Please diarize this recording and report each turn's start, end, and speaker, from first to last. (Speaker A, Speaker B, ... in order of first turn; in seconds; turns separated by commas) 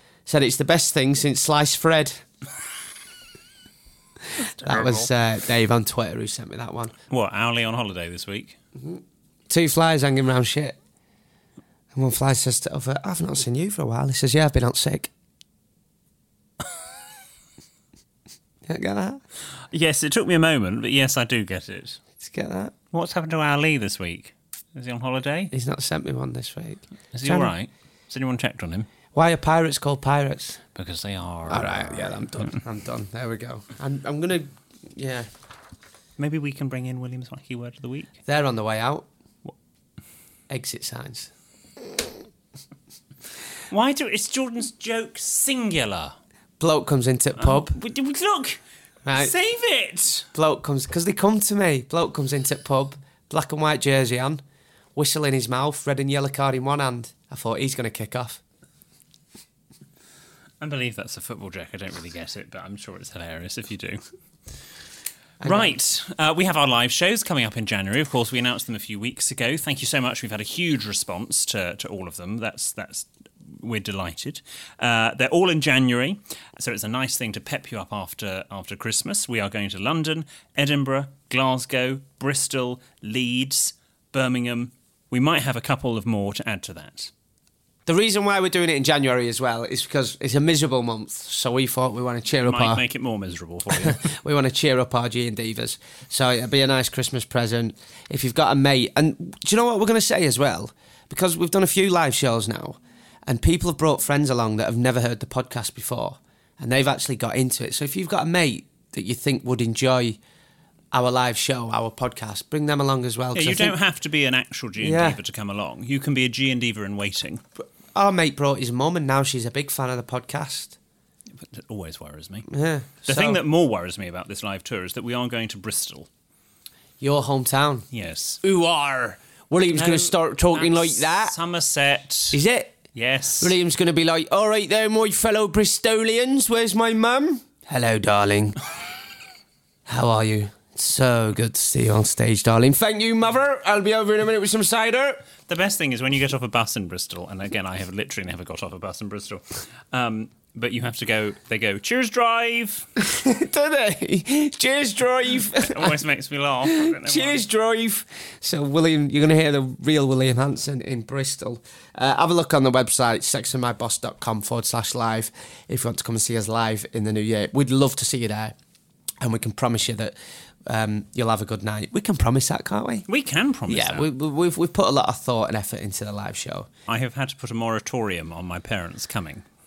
Speaker A: 0.3-2.2, Speaker B: 4.4-5.1, Speaker A: 4.6-7.0, Speaker B: 7.1-8.6, Speaker A: 8.8-10.8, Speaker A: 11.9-15.1, Speaker A: 18.6-19.2, Speaker B: 19.7-22.0, Speaker A: 22.2-22.8, Speaker B: 22.9-25.5, Speaker A: 25.5-27.5, Speaker B: 27.1-28.9, Speaker A: 29.1-30.6, Speaker B: 30.8-32.6, Speaker A: 31.5-35.3, Speaker B: 36.2-38.1, Speaker A: 38.3-39.1, Speaker A: 40.5-41.3, Speaker B: 43.7-46.2, Speaker A: 46.6-47.8, Speaker B: 47.4-48.6, Speaker A: 49.0-49.4, Speaker B: 49.1-50.3, Speaker A: 50.3-54.4, Speaker A: 55.0-58.4, Speaker B: 60.6-64.7, Speaker A: 65.4-65.8, Speaker B: 65.4-87.1, Speaker A: 87.9-92.8, Speaker B: 92.5-94.1, Speaker A: 93.8-110.2, Speaker A: 110.9-113.8, Speaker B: 113.3-117.4, Speaker A: 114.8-115.2, Speaker A: 117.6-120.8, Speaker B: 121.4-122.5, Speaker A: 122.5-123.4, Speaker B: 123.1-126.1, Speaker A: 127.0-127.9, Speaker B: 127.9-128.4, Speaker A: 128.4-131.4, Speaker B: 129.7-132.4, Speaker A: 132.3-132.8, Speaker B: 132.9-133.5, Speaker A: 133.4-138.6, Speaker A: 139.9-145.3, Speaker B: 145.5-152.9, Speaker A: 153.0-156.0, Speaker B: 155.6-157.4, Speaker A: 156.7-168.6, Speaker A: 169.2-170.2, Speaker A: 170.7-173.1, Speaker B: 173.1-174.1, Speaker A: 173.7-176.7, Speaker B: 176.9-179.4